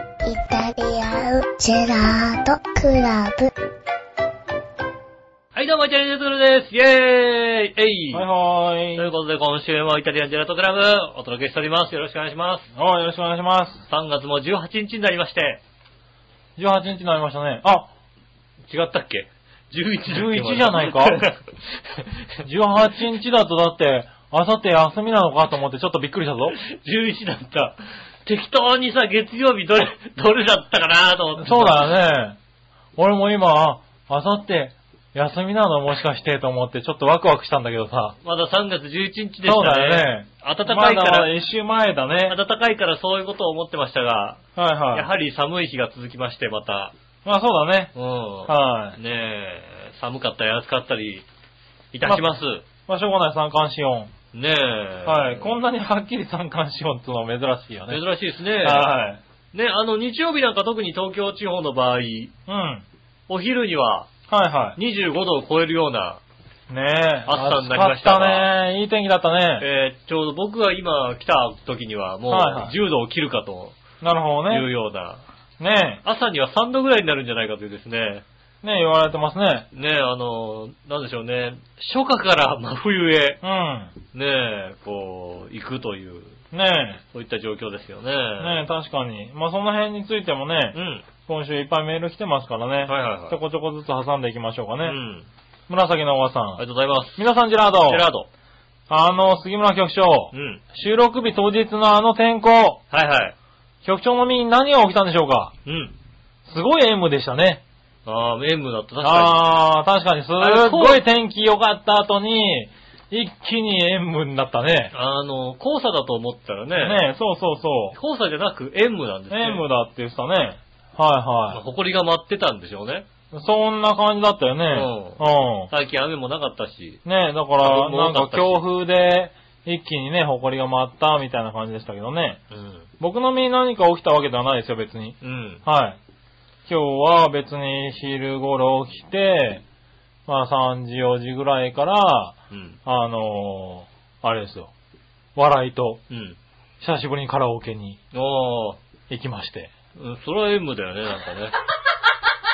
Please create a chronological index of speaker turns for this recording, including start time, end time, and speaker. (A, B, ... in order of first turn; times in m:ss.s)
0:00.2-0:03.5 A
0:05.5-0:08.2 B
0:08.1-0:09.1 C
0:08.9-0:12.7 B
0:12.7-0:13.8 C
0:13.9-0:15.6 B
0:16.6-0:17.9 C
0:18.7-0:22.0 B
0:20.1-0:21.2 C
0:22.4-0:26.6 C
0:26.6-0:31.9 B
0:31.4-0:32.4 C
0:33.0-0:38.2 C
0:38.2-0:41.3 B
0:39.4-0:42.4 C
0:42.3-0:44.4 B
0:44.6-0:45.1 C
0:44.9-0:46.9 B
0:47.2-0:47.9 C
0:47.9-0:51.2 B
0:48.5-0:49.0 C
0:51.9-0:52.6 B
0:52.8-0:54.1 C
0:54.3-0:55.6 B
0:55.0-0:58.0 C
0:57.9-0:58.9 B
0:58.6-0:59.2 C
0:59.5-1:02.3 B
1:02.5-1:02.8 C
1:03.3-1:04.1 B
1:04.3-1:04.8 C
1:04.8-1:06.2 B
1:06.7-1:09.6 C
1:07.3-1:08.5 B
1:09.6-1:13.8 B
1:12.3-1:12.7 C
1:14.0-1:14.7 C
1:14.5-1:15.2 B
1:15.6-1:16.0 C
1:16.0-1:18.2 B
1:18.6-1:19.7 C
1:19.7-1:23.4 B
1:23.4-1:23.9 C
1:24.1-1:26.3 B
1:26.5-1:27.0 C
1:27.1-1:28.6 B
1:28.4-1:35.0 C
1:30.7-1:31.0 B
1:32.8-1:33.4 B
1:34.8-1:35.3 B
1:35.7-1:36.6 C
1:36.6-1:37.2 B
1:37.2-1:38.1 C
1:37.8-1:38.3 B
1:38.9-1:42.8 C
1:40.3-1:40.6 B
1:42.9-1:43.3 B
1:43.8-1:45.5 C
1:45.6-1:45.9 B
1:46.4-1:47.6 C
1:48.0-1:49.5 B
1:49.0-1:54.9 C
1:50.4-1:51.0 B
1:54.9-1:57.0 B
1:56.8-1:58.0 C
1:57.9-1:59.6 B
1:59.3-2:01.6 C
2:01.5-2:03.0 B
2:03.3-2:05.7 C
2:04.7-2:07.0 B
2:07.0-2:12.4 C
2:07.6-2:08.6 B
2:12.5-2:12.9 B
2:13.0-2:16.0 C
2:15.2-2:15.6 B
2:16.7-2:19.6 C
2:20.3-2:24.7 C
2:22.5-2:22.8 B
2:25.4-2:26.0 C
2:26.1-2:26.4 B
2:26.8-2:28.0 C
2:28.1-2:28.8 B
2:29.1-2:29.7 C
2:29.9-2:31.5 B